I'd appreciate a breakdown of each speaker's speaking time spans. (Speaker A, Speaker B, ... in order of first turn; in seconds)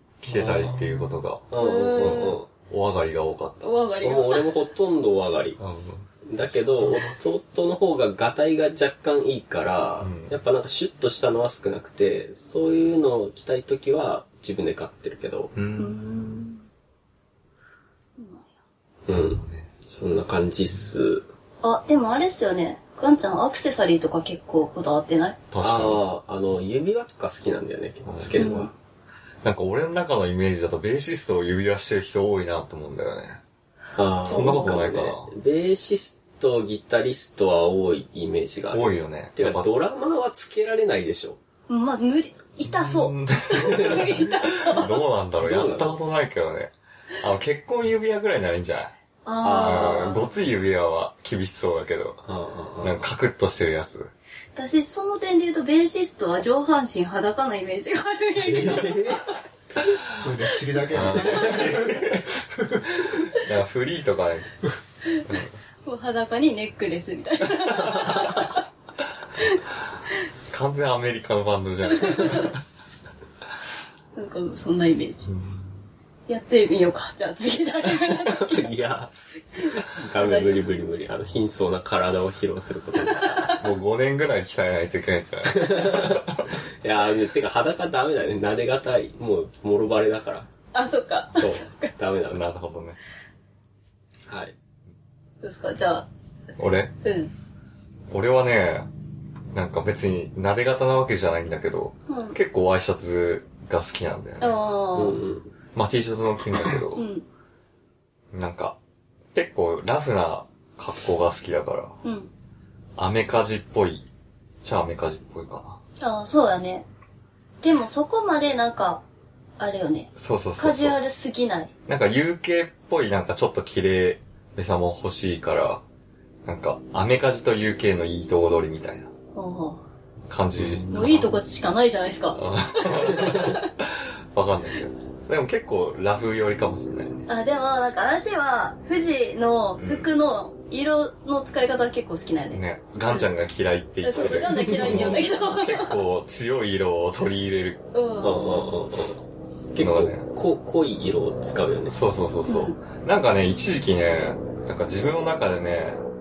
Speaker A: 0.2-1.4, 2.0-3.7, 5.6-6.1, 10.0-10.4, 15.5-16.4, 19.1-19.7, 25.5-26.0, 28.1-28.6, 29.4-33.4, 34.3-35.3, 38.7-39.7, 42.6-48.9, 49.5-52.2, 52.8-54.1, 60.9-62.3, 63.0-64.7, 65.3-65.5, 70.5-72.6, 75.3-75.6, 83.5-86.5, 92.3-93.0, 96.6-96.9, 98.1-98.9, 99.5-104.6, 105.7-107.0, 108.3-108.8, 109.3-112.0, 113.0-114.1, 114.6-115.8, 120.2-121.0, 121.9-125.8, 126.4-129.1, 130.3-131.4, 132.3-137.3, 139.8-140.1, 142.5-147.8, 149.8-150.3, 151.9-156.0
Speaker B: 0.3-2.5, 4.0-5.6, 6.3-15.5, 19.1-21.2, 25.6-28.7, 34.0-41.4, 43.6-44.1, 45.4-46.0, 49.4-50.2, 52.2-53.1, 58.4-59.2, 78.0-83.3, 85.5-90.5, 91.3-92.4, 94.3-94.5, 105.0-105.5, 130.6-130.9, 144.6-145.2, 148.2-149.2, 149.7-152.0
Speaker C: 1.6-2.4, 3.6-4.5, 15.8-16.6, 18.2-18.5, 21.6-25.4, 28.4-28.7, 34.3-34.8, 41.7-45.0, 49.2-50.2, 54.5-59.2, 65.8-68.6, 71.9-72.5, 74.2-75.3, 76.3-78.7, 79.6-80.6, 83.0-83.7, 90.7-91.9, 95.4-96.1, 97.0-97.3, 102.1-102.3, 104.4-105.2, 106.9-107.2, 112.0-112.3, 116.0-116.8, 117.6-119.0, 119.6-121.7, 129.3-129.8, 130.9-133.7, 137.3-142.6, 144.0-146.0, 147.9-148.6, 152.5-152.8
Speaker D: 60.1-62.9